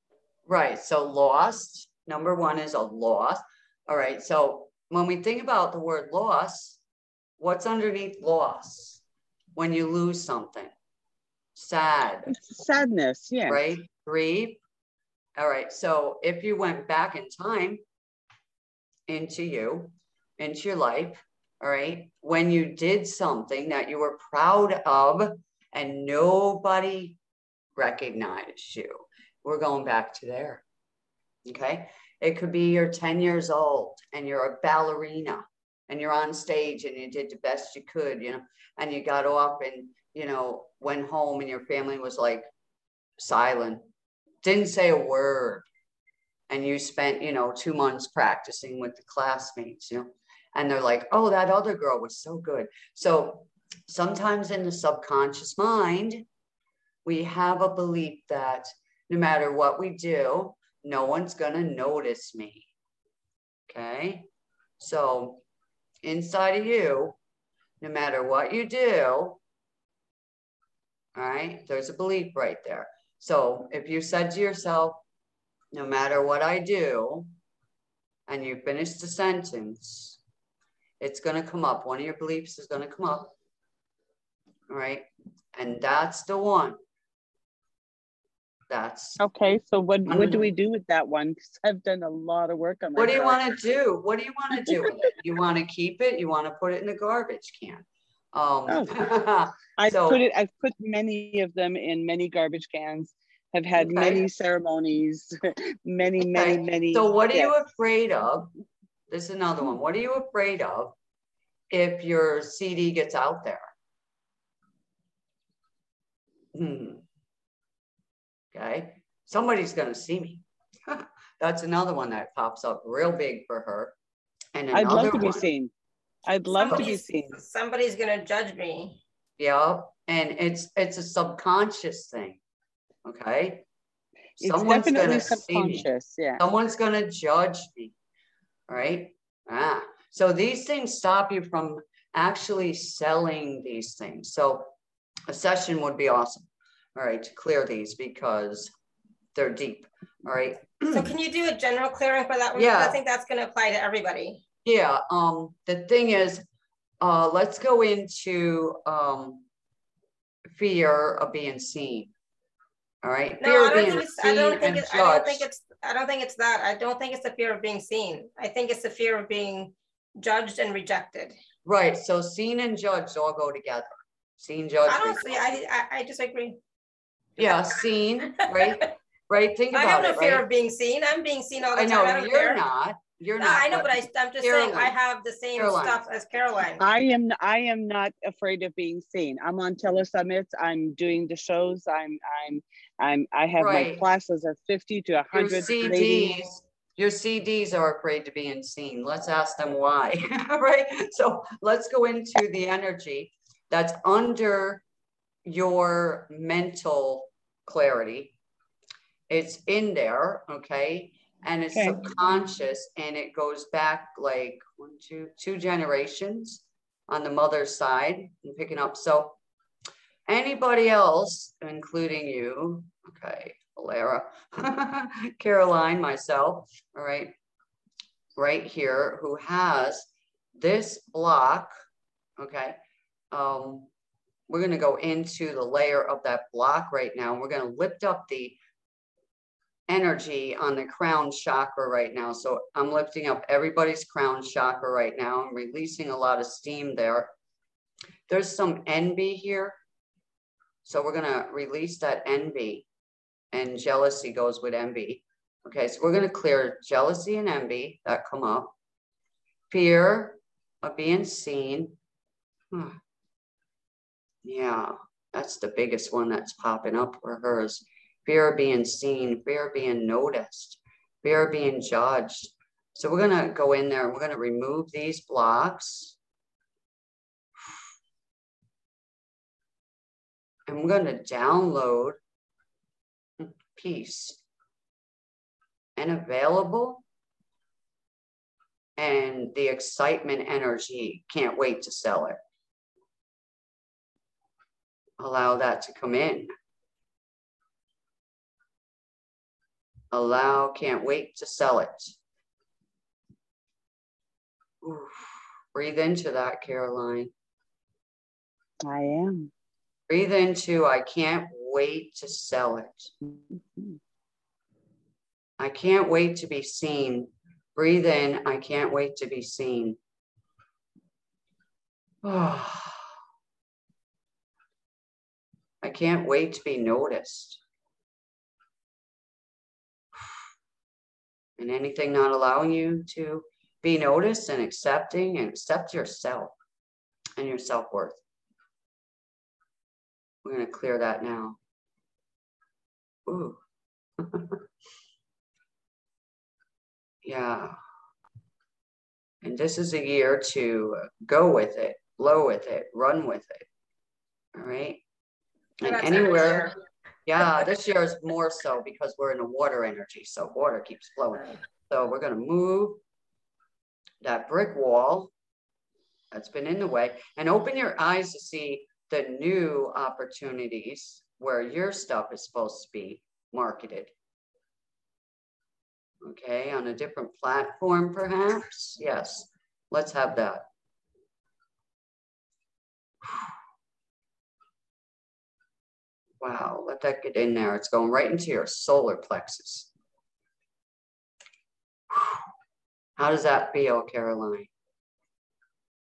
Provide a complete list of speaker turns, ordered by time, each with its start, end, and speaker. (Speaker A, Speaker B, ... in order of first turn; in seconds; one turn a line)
Speaker A: 0.5-6.8
Speaker A: 7.4-9.0
Speaker A: 9.6-10.7
Speaker A: 11.6-12.3
Speaker B: 12.3-13.6
Speaker A: 13.5-14.6
Speaker A: 15.4-17.8
Speaker A: 19.1-27.2
Speaker A: 27.8-30.6
Speaker A: 31.4-42.5
Speaker A: 43.2-43.8
Speaker A: 44.4-45.6
Speaker A: 46.5-56.2
Speaker A: 57.0-62.7
Speaker A: 63.7-64.3
Speaker A: 64.8-65.4
Speaker A: 66.0-67.2
Speaker A: 67.8-69.4
Speaker A: 71.1-75.0
Speaker A: 75.7-77.3
Speaker A: 78.3-80.2
Speaker A: 81.0-83.3
Speaker A: 84.7-86.8
Speaker A: 88.7-89.2
Speaker B: 89.2-93.4
Speaker A: 90.0-90.5
Speaker A: 93.0-100.2
Speaker B: 98.7-99.0
Speaker B: 99.8-105.3
Speaker A: 103.8-104.2
Speaker B: 105.8-107.5
Speaker A: 106.2-108.5
Speaker A: 109.1-111.0
Speaker A: 111.7-113.7
Speaker A: 116.5-117.0
Speaker A: 118.5-123.9
Speaker A: 124.5-125.5
Speaker B: 124.7-125.7
Speaker B: 126.3-127.4
Speaker C: 126.5-129.0
Speaker A: 129.4-132.4
Speaker A: 133.0-133.7
Speaker A: 134.4-135.9
Speaker B: 134.4-136.4
Speaker A: 136.4-137.9
Speaker A: 138.7-144.7
Speaker A: 145.3-148.7
Speaker A: 149.3-151.1
Speaker C: 150.9-154.4
Speaker A: 152.5-153.0
Speaker A: 154.6-156.4
Speaker A: 157.0-159.4
Speaker A: 160.5-162.1
Speaker A: 163.0-165.5
Speaker C: 163.4-171.3
Speaker A: 171.6-175.4
Speaker C: 174.9-176.6
Speaker C: 177.4-177.7
Speaker A: 177.4-180.4
Speaker C: 178.4-178.9
Speaker C: 179.7-182.6
Speaker A: 181.7-184.9
Speaker C: 183.4-186.8
Speaker A: 185.6-186.0
Speaker B: 186.8-196.4
Speaker A: 193.6-194.0
Speaker A: 195.3-204.8
Speaker A: 205.4-208.3
Speaker A: 209.3-219.4
Speaker B: 211.7-212.0
Speaker A: 220.3-227.3
Speaker A: 228.3-231.7
Speaker A: 232.4-232.8
Speaker A: 233.3-233.9
Speaker A: 234.5-238.6
Speaker A: 239.9-247.3
Speaker A: 248.3-249.8
Speaker A: 250.8-252.9
Speaker A: 253.5-258.7
Speaker A: 259.7-262.0
Speaker A: 262.7-263.0
Speaker A: 264.4-276.1
Speaker A: 280.7-282.2
Speaker A: 283.4-284.4
Speaker A: 285.9-287.0
Speaker A: 289.0-292.4
Speaker A: 295.2-296.5
Speaker A: 300.1-302.1
Speaker A: 304.8-307.3
Speaker B: 308.8-309.5
Speaker A: 310.1-313.1
Speaker A: 315.6-320.0
Speaker A: 322.2-323.1
Speaker A: 325.8-327.6
Speaker A: 331.6-336.6
Speaker A: 337.4-338.2
Speaker A: 340.4-341.6
Speaker A: 343.2-343.6
Speaker A: 344.2-344.6
Speaker A: 347.2-347.7
Speaker A: 349.4-353.6
Speaker A: 354.5-355.0
Speaker A: 355.8-356.7
Speaker C: 355.8-356.7
Speaker A: 357.2-363.0
Speaker A: 364.2-365.3
Speaker A: 366.3-374.1
Speaker A: 376.2-380.6
Speaker A: 383.2-383.5
Speaker A: 386.4-389.9
Speaker A: 392.1-392.4
Speaker A: 393.2-394.7